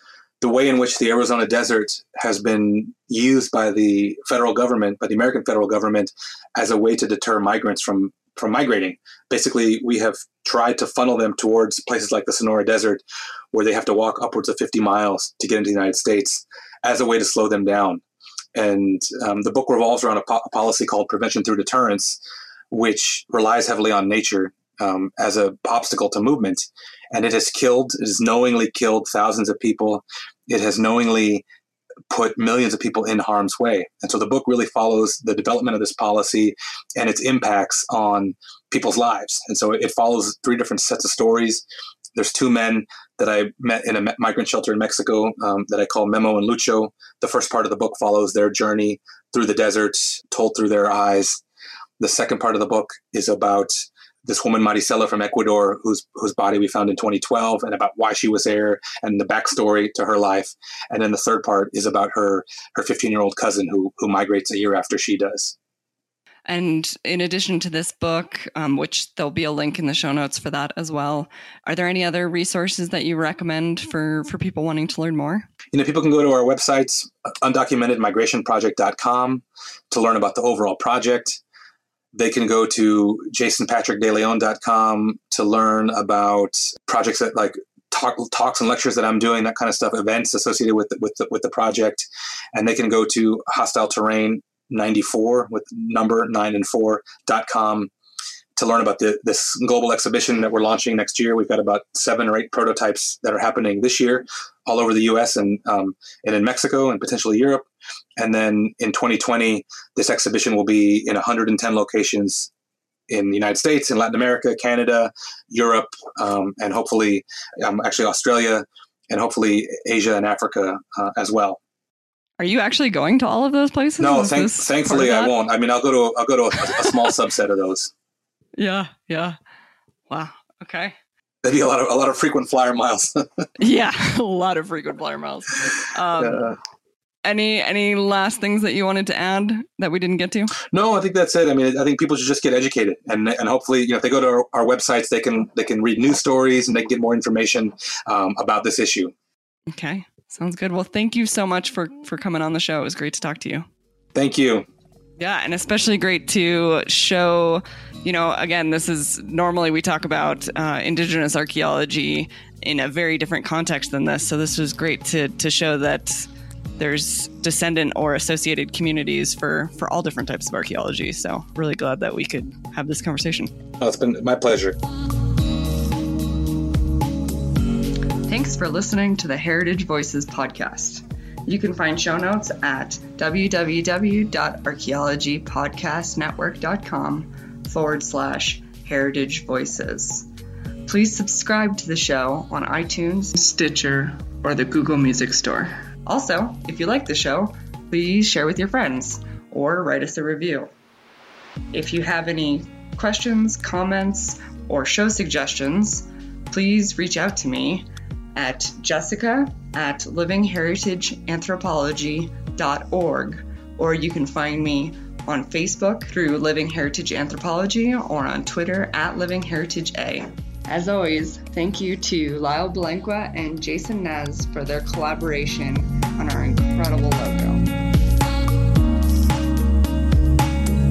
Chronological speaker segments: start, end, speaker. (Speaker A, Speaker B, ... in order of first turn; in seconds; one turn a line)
Speaker A: 0.4-18.0
Speaker A: 18.5-22.2
Speaker A: 22.7-31.4
Speaker A: 32.1-41.6
Speaker A: 42.1-51.4
Speaker A: 52.0-65.5
Speaker B: 66.5-75.5
Speaker A: 75.7-81.4
Speaker A: 82.1-97.9
Speaker A: 98.5-107.7
Speaker A: 108.2-112.5
Speaker A: 113.1-121.6
Speaker B: 122.4-125.3
Speaker A: 124.0-127.9
Speaker B: 126.7-127.1
Speaker B: 128.6-129.3
Speaker B: 130.1-130.9
Speaker A: 131.4-133.4
Speaker B: 133.6-136.4
Speaker A: 136.2-136.6
Speaker B: 137.2-140.5
Speaker A: 140.6-149.1
Speaker B: 149.7-153.6
Speaker A: 154.1-154.7
Speaker B: 155.2-166.3
Speaker B: 166.8-173.5
Speaker A: 173.8-174.8
Speaker B: 178.2-190.3
Speaker B: 190.8-200.7
Speaker B: 201.7-227.6